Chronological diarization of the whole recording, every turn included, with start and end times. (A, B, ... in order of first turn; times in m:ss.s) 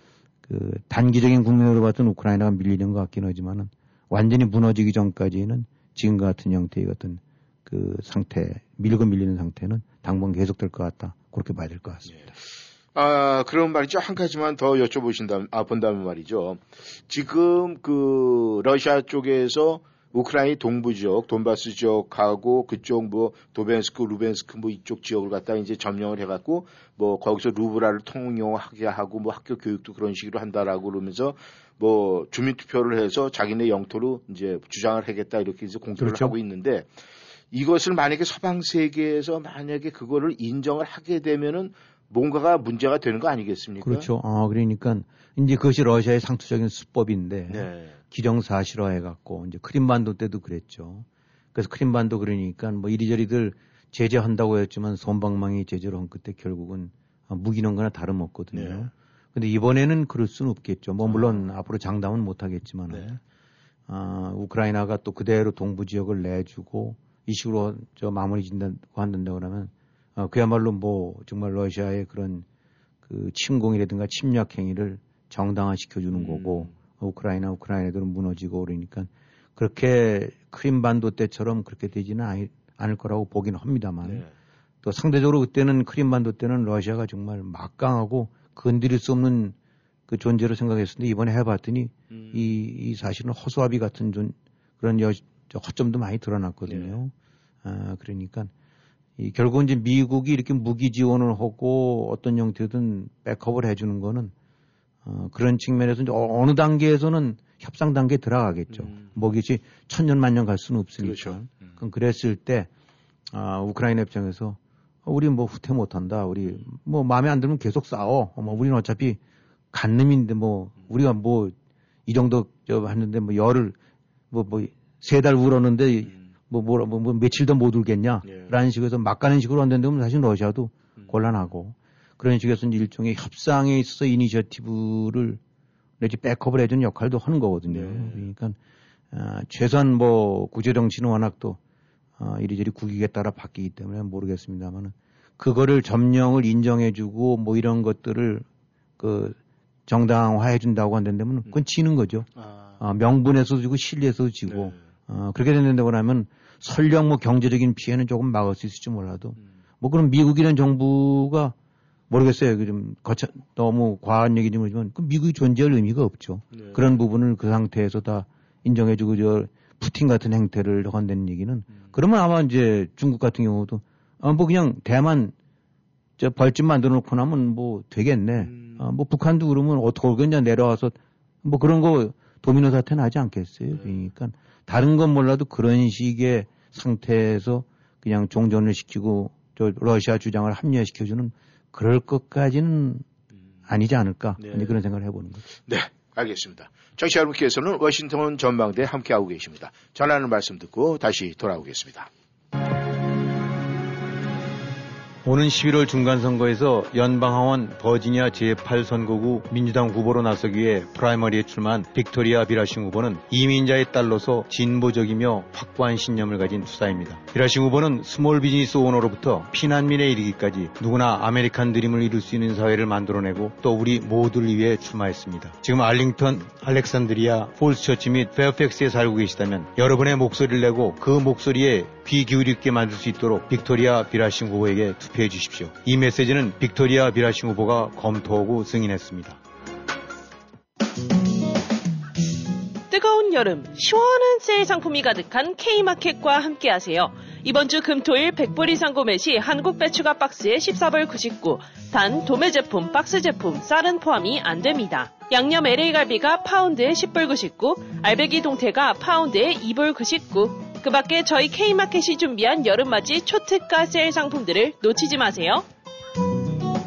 0:00.5-0:12.2 A
0:12.1-0:12.3 B
0:13.0-0:36.9 B
0:36.0-0:36.3 A
0:37.5-0:44.1 B
0:43.8-1:03.2 A
0:47.5-0:48.0 B
0:58.5-0:58.9 B
1:01.0-1:01.5 B
1:02.9-1:03.2 B
1:03.9-1:12.5 A
1:13.1-1:24.2 A
1:16.1-1:16.7 B
1:24.0-1:24.3 B
1:24.8-1:29.6 A
1:30.1-1:37.1 A
1:32.1-1:32.6 B
1:36.7-1:37.0 B
1:37.6-1:38.5 A
1:39.2-1:44.3 A
1:45.0-1:52.7 A
1:48.7-1:49.1 B
1:51.0-1:51.8 B
1:53.3-1:59.2 A
1:59.7-2:01.6 A
2:02.1-2:03.8 A
2:04.3-2:15.4 A
2:08.2-2:08.5 B
2:11.0-2:11.5 B
2:16.0-2:18.6 A
2:17.7-2:18.3 B
2:19.1-2:21.6 A
2:22.2-2:28.5 A
2:29.0-2:41.6 A
2:32.4-2:32.8 B
2:34.5-2:34.8 B
2:42.1-2:55.3 A
2:46.5-2:46.9 B
2:51.7-2:52.0 B
2:56.2-3:13.0 A
2:58.4-2:58.8 B
3:03.7-3:04.1 B
3:13.7-3:15.4 A
3:14.4-3:14.8 B
3:15.7-3:22.1 B
3:25.2-3:59.4 A
4:02.9-4:25.6 C